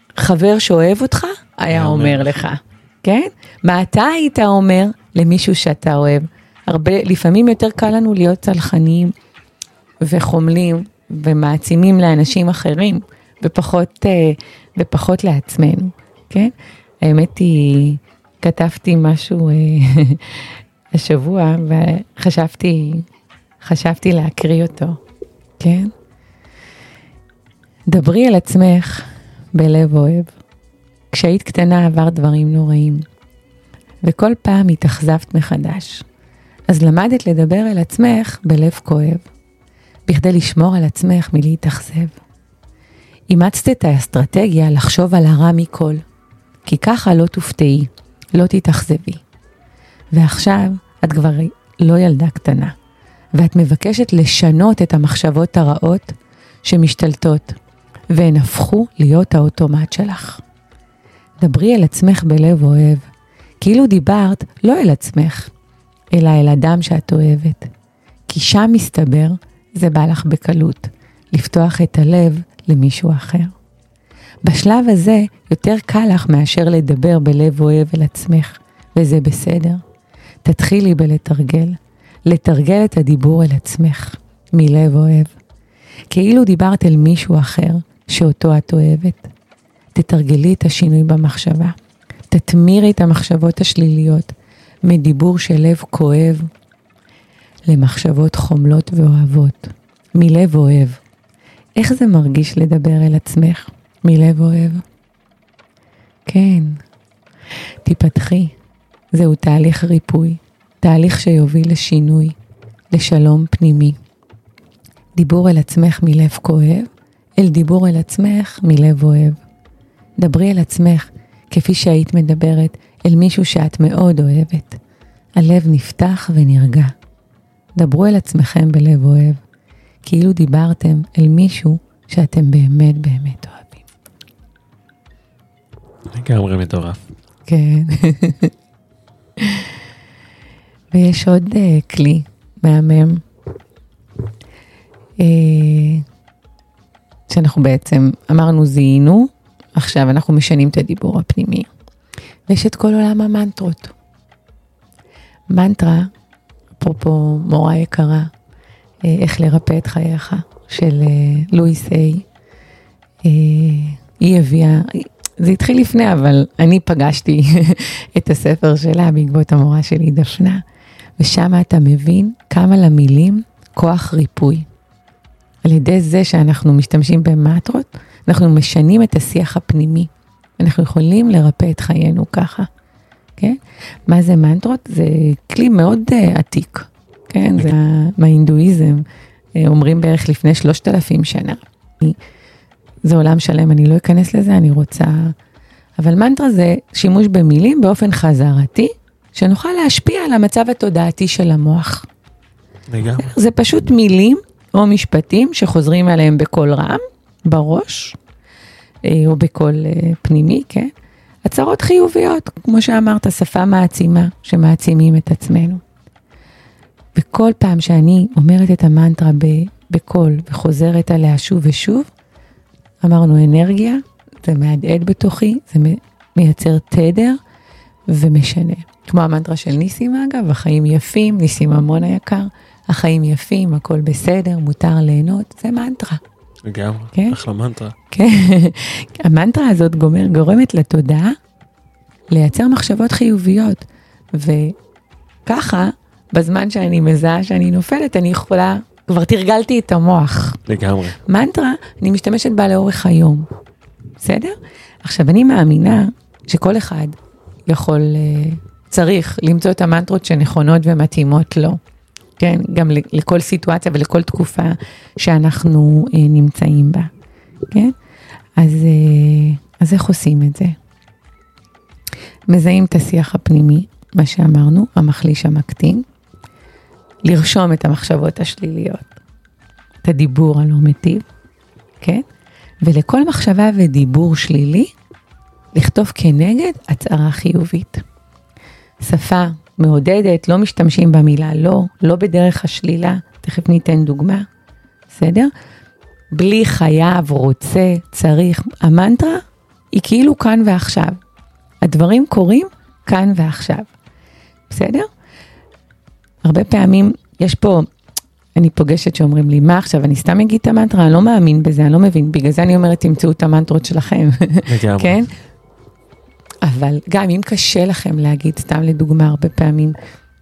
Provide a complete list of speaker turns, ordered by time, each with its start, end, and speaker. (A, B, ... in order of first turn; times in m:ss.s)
0:00.2-0:09.1 A
0:01.7-0:02.4 B
0:10.0-0:23.0 A
0:23.6-0:25.0 A
0:25.6-0:25.9 A
0:27.9-0:30.3 A
0:31.1-0:33.0 A
0:34.0-0:36.0 A
0:36.7-0:39.2 A
0:40.1-0:42.2 A
0:43.3-0:46.0 A
0:46.6-0:49.2 A
0:50.1-0:52.7 A
0:53.3-0:57.6 A
0:58.1-1:00.4 A
1:01.4-1:03.1 A
1:03.6-1:05.5 A
1:06.1-1:07.7 A
1:08.3-1:13.5 A
1:14.4-1:19.8 A
1:20.4-1:25.3 A
1:26.1-1:29.3 A
1:29.9-1:31.7 A
1:32.3-1:34.3 A
1:34.8-1:36.5 A
1:37.7-1:41.0 A
1:41.8-1:44.8 A
1:46.2-1:46.8 A
1:47.8-1:48.5 A
1:49.1-1:52.4 A
1:52.9-1:54.0 A
1:55.2-1:59.4 A
2:00.2-2:04.8 A
2:05.4-2:06.9 A
2:07.8-2:09.4 A
2:10.0-2:13.8 A
2:16.1-2:17.0 B
2:17.5-2:18.5 A
2:19.4-2:19.7 A
2:20.9-2:23.2 A
2:25.2-2:26.0 A
2:27.3-2:31.7 A
2:32.5-2:33.9 A
2:35.5-2:36.1 A
2:36.8-2:38.3 A
2:39.0-2:42.2 A
2:43.2-2:50.6 A
2:51.2-2:54.6 A
2:55.6-3:02.7 A
3:03.4-3:09.0 A
3:09.6-3:12.2 A
3:13.0-3:15.3 A
3:16.0-3:22.1 A
3:22.9-3:23.3 B
3:23.2-3:28.2 A
3:29.0-3:30.9 A
3:31.4-3:35.8 A
3:37.1-3:42.1 A
3:43.0-3:47.4 A
3:48.1-3:56.2 A
3:56.6-3:57.9 B
3:57.1-3:57.4 A
3:58.1-4:01.4 A
4:02.3-4:04.7 A
4:05.4-4:10.6 A
4:10.6-4:11.2 B
4:11.2-4:13.5 A
4:14.2-4:21.8 A
4:22.4-4:27.1 A
4:28.6-4:30.7 A
4:32.5-4:36.0 A
4:37.2-4:39.2 A
4:40.0-4:41.2 A
4:42.8-4:44.9 A
4:45.7-4:48.0 A
4:49.0-4:54.4 A
4:55.1-4:55.5 A
4:56.3-4:59.4 A
4:59.9-5:01.2 A
5:01.8-5:03.9 A
5:04.7-5:05.1 A
5:06.4-5:07.8 A
5:08.6-5:15.3 A
5:14.7-5:15.2 B
5:16.6-5:19.9 A